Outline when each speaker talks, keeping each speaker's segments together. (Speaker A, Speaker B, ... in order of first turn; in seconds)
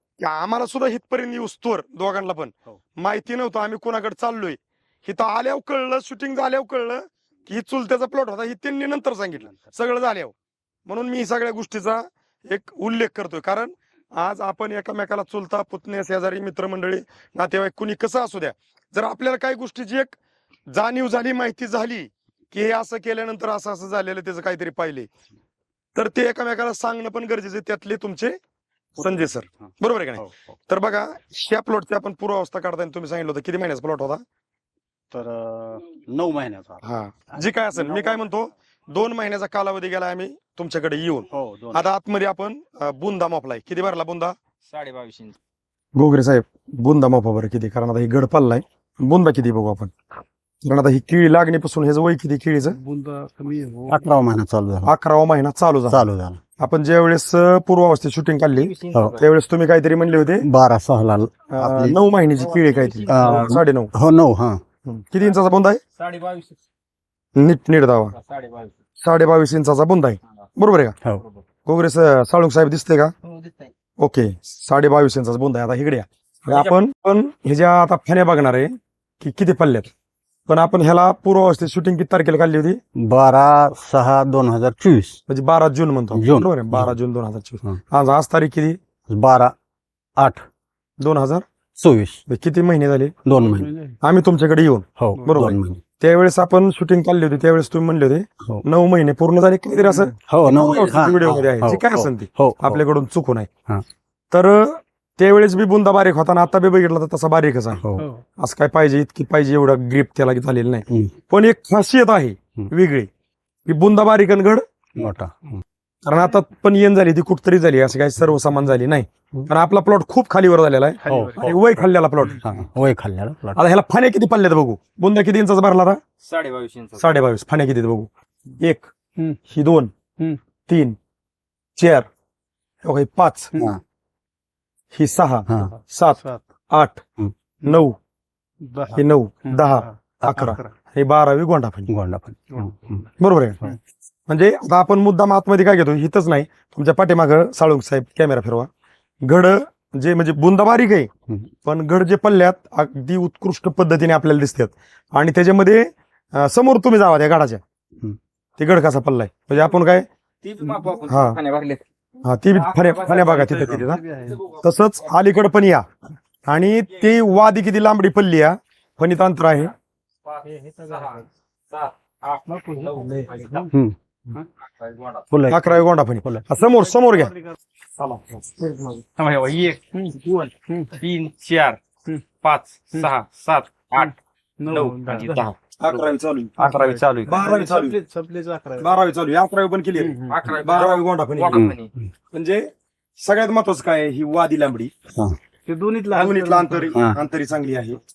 Speaker A: 0.2-10.3, 10.9-20.2, 20.7-25.1, 25.9-28.4, 29.0-34.2, 36.8-44.4, 45.9-49.9, 50.6-52.8, 54.8-56.1, 56.6-60.4, 61.5-63.9, 64.8-65.8, 67.3-68.1, 69.0-71.0, 71.7-73.1, 74.0-79.9, 80.5-82.8, 85.3-88.8, 91.0-91.5, 92.3-93.2, 94.0-103.5, 104.3-107.8, 108.4-113.1, 113.7-114.6, 116.0-122.4, 123.5-126.0, 127.0-128.9, 129.5-129.9, 130.7-131.0, 131.8-132.1, 132.8-133.5, 134.9-137.0, 137.6-138.0, 138.9-141.9, 143.2-143.6, 144.3-148.7, 149.2-151.1, 151.6-157.6, 158.6-160.1, 161.1-161.4, 162.2-164.0, 164.6-165.8, 166.5-169.7, 175.5-177.3, 178.0-179.0, 185.8-188.0, 188.8-191.6, 192.3-192.7, 193.2-194.9, 196.1-198.0
Speaker B: 9.3-9.7, 29.6-30.6, 35.1-38.3, 41.3-41.9
Speaker C: 44.7-45.4, 58.6-59.3, 62.4-63.6, 65.9-66.6, 68.1-68.7, 76.5-76.7, 126.2-127.0, 160.4-161.8, 162.5-164.7, 166.9-167.2, 170.2-173.7, 174.7-175.5, 179.2-181.8, 182.4-184.2, 184.7-186.1, 186.6-187.4, 190.3-191.9
Speaker D: 52.6-54.0, 73.3-73.7, 93.3-94.0, 108.0-108.2, 121.0-121.6, 136.2-136.4, 138.6-140.7, 142.5-143.1, 160.6-161.0, 163.9-164.4, 170.4-171.3, 172.4-173.7, 176.7-177.5, 179.9-180.9, 183.9-185.5, 186.6-188.9, 189.9-190.3, 195.7-197.0
Speaker E: 53.9-54.9, 55.9-56.4, 58.9-59.2, 60.4-62.0, 63.1-64.6, 83.0-85.2, 86.1-86.9, 89.1-89.5, 90.2-90.4, 91.8-92.2, 93.2-93.7, 95.0-95.8, 100.3-102.8, 107.8-108.0, 115.0-115.6, 121.0-121.7, 122.4-123.6, 140.2-140.5, 141.9-143.0, 191.5-191.8, 196.9-197.2